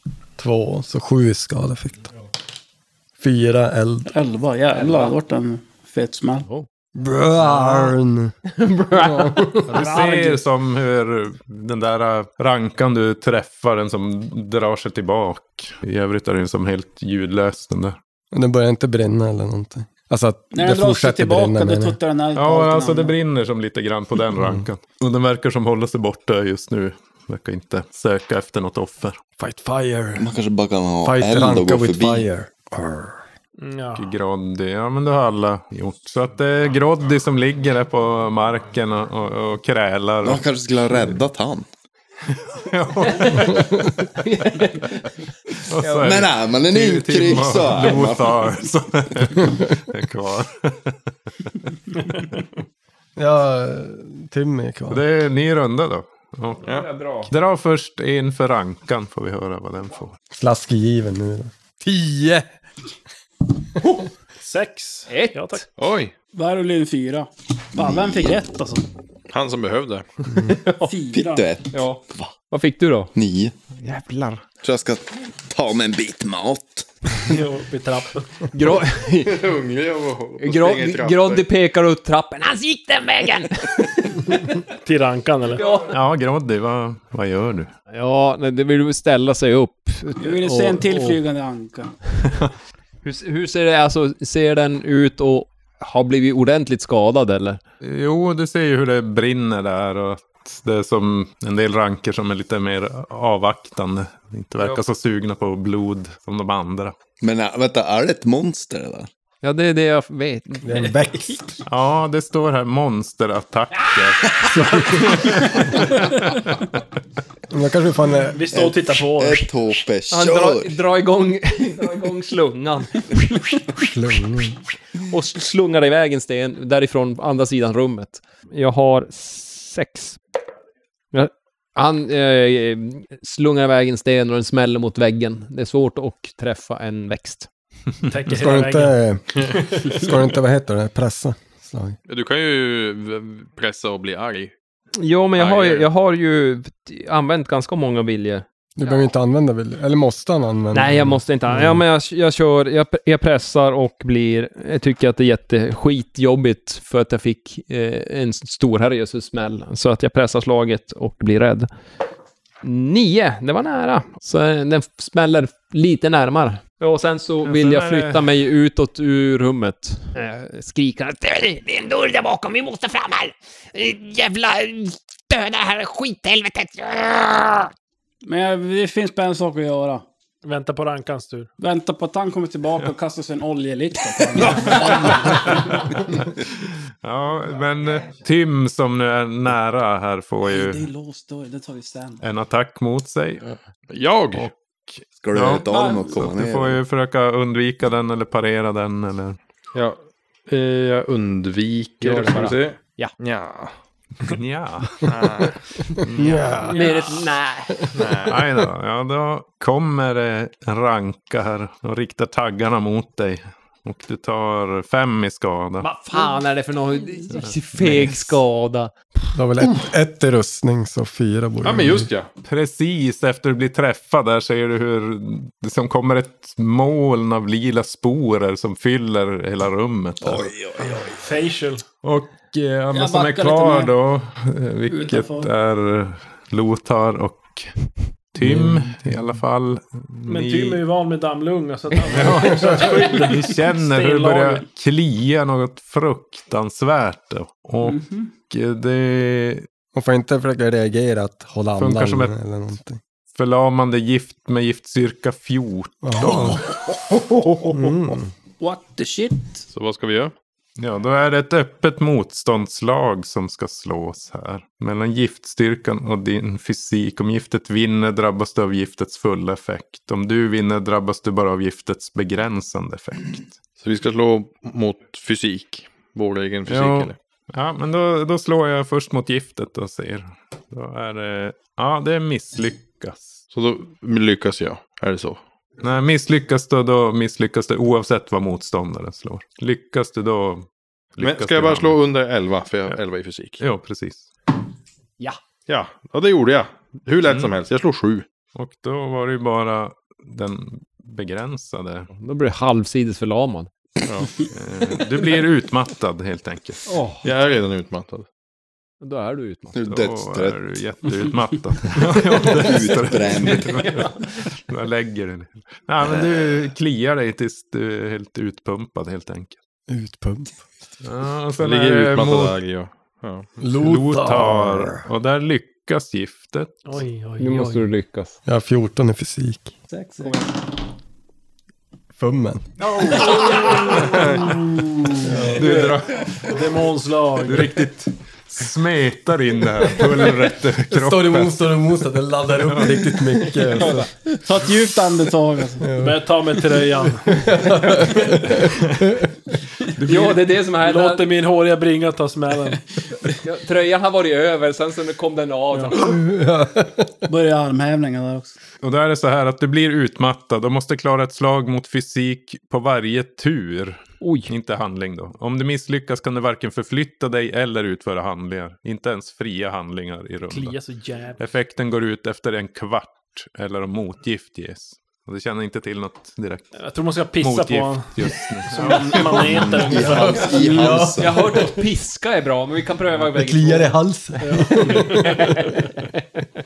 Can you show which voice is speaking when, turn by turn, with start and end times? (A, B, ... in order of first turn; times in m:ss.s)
0:00.4-0:02.1 A
0:03.2-0:04.1 A
0:04.1-0:06.4 B
0:04.8-0:05.1 C
0:07.0-0:08.3 A
0:08.5-0:09.6 C
0:08.9-0:09.7 A
0:09.6-0:18.0 D
0:18.3-0:22.0 A
0:20.5-0:23.2 B
0:22.3-0:29.2 D
0:24.3-0:24.6 A
0:29.4-0:30.3 A
0:30.2-0:32.3 E
0:31.0-0:33.2 A
0:33.6-0:34.1 F
0:34.0-0:40.4 D
0:40.2-0:41.6 E
0:42.4-0:44.1 D
0:43.2-0:43.5 C
0:44.1-0:45.1 C
0:45.7-0:52.2 D
0:45.7-0:46.1 C
0:46.0-0:48.4 E
0:53.2-0:55.0 A
0:54.9-0:56.7 D
0:56.6-0:57.3 C
0:57.2-1:00.2 D
1:00.3-1:02.5 A
1:04.4-1:05.6 F
1:05.1-1:05.6 C
1:05.8-1:06.1 G
1:06.3-1:08.8 B
1:07.8-1:08.4 E
1:09.3-1:10.0 G
1:10.6-1:10.9 C
1:10.8-1:11.5 B
1:11.1-1:12.3 E
1:11.7-1:13.1 C
1:13.1-1:13.5 E
1:13.8-1:14.4 C
1:14.6-1:16.9 E
1:17.2-1:18.3 F
1:18.5-1:19.4 C
1:19.2-1:21.4 G
1:20.4-1:24.0 C
1:22.5-1:23.5 H
1:24.8-1:25.6 F
1:25.6-1:25.9 C
1:25.9-1:27.7 D
1:27.9-1:31.2 C
1:30.2-1:31.9 B
1:33.0-1:37.6 C
1:37.8-1:46.9 D
1:47.2-1:49.1 E
1:49.4-1:51.0 C
1:50.6-1:51.6 A
1:51.6-1:56.8 D
1:54.4-1:55.2 A
1:57.5-1:58.4 A
1:58.3-1:59.5 F
1:58.5-2:00.8 E
2:00.1-2:03.4 C
2:03.8-2:04.6 A
2:05.1-2:10.2 C
2:11.1-2:17.5 C
2:18.1-2:19.0 F
2:18.3-2:22.0 A
2:22.1-2:24.5 G
2:25.0-2:29.0 C
2:25.4-2:25.9 G
2:28.8-2:31.8 A
2:30.7-2:41.7 C
2:42.6-2:50.7 C
2:47.4-2:48.3 D
2:50.3-2:57.7 H
2:58.2-3:00.0 B
3:00.4-3:01.5 F
3:01.6-3:05.8 B
3:04.4-3:10.8 D
3:10.4-3:12.2 B
3:12.2-3:13.5 D
3:13.9-3:14.5 G
3:14.3-3:19.4 D
3:15.2-3:16.8 E
3:15.7-3:16.0 B
3:19.7-3:23.7 G
3:22.0-3:23.1 C
3:24.2-3:25.1 D
3:25.0-3:25.5 G
3:26.0-3:26.4 D
3:26.2-3:26.8 A
3:26.7-3:27.6 C
3:26.8-3:27.6 H
3:27.9-3:28.4 G
3:28.2-3:35.9 D
3:35.8-3:38.9 C
3:37.4-3:38.4 D
3:39.3-3:42.1 A
3:41.6-3:42.3 G
3:42.4-3:50.5 D
3:50.2-3:51.1 E
3:51.2-3:51.8 F
3:52.0-4:00.8 D
3:52.9-3:53.9 B
3:54.9-3:55.5 B
3:58.4-3:59.0 A
4:00.3-4:04.7 F
4:02.0-4:09.6 D
4:07.8-4:08.3 B
4:09.9-4:13.0 A
4:11.8-4:12.3 D
4:13.3-4:17.9 D
4:16.0-4:16.6 A
4:17.7-4:18.3 A
4:18.6-4:19.6 B
4:19.7-4:20.3 G
4:20.8-4:33.5 D
4:33.8-4:37.2 G
4:36.7-4:43.4 D
4:43.5-4:45.4 G
4:45.8-4:52.0 D
4:51.2-4:53.6 G
4:53.6-4:54.3 D
4:55.7-4:58.2 G
4:57.2-4:57.5 D
4:58.5-5:02.1 D
5:02.1-5:03.7 C
5:04.5-5:06.8 D
5:06.9-5:07.2 C
5:07.2-5:08.2 G
5:09.0-5:09.8 C
5:09.7-5:10.8 E
5:09.8-5:19.6 D
5:12.4-5:13.8 E
5:19.9-5:20.7 A
5:21.0-5:22.6 D
5:21.6-5:23.5 G
5:23.6-5:25.0 A
5:23.7-5:26.8 D
5:26.8-5:27.9 F
5:27.4-5:28.3 C
5:28.4-5:29.7 A
5:29.9-5:30.5 B
5:32.2-5:32.7 A
5:32.8-5:34.2 D
5:34.0-5:34.5 G
5:35.2-5:35.7 A
5:35.5-5:36.6 D
5:36.4-5:37.9 F
5:37.4-5:41.8 D
5:40.9-5:44.1 A
5:42.6-5:43.6 D
5:43.8-5:44.1 C
5:44.4-5:45.9 B
5:45.8-5:48.7 A
5:46.0-5:47.4 F
5:49.9-5:50.4 D
5:50.0-5:51.2 C
5:50.7-5:52.8 F
5:53.4-5:56.1 C
5:56.0-5:57.1 A
5:57.3-5:58.5 B
5:58.8-6:10.8 D
6:04.2-6:04.5 C
6:10.5-6:11.4 F
6:11.4-6:16.7 D
6:16.7-6:20.7 F
6:17.3-6:19.6 D
6:19.4-6:21.4 E
6:19.9-6:21.7 A
6:20.4-6:24.0 C
6:23.3-6:25.5 A
6:24.4-6:25.2 F
6:24.9-6:26.0 C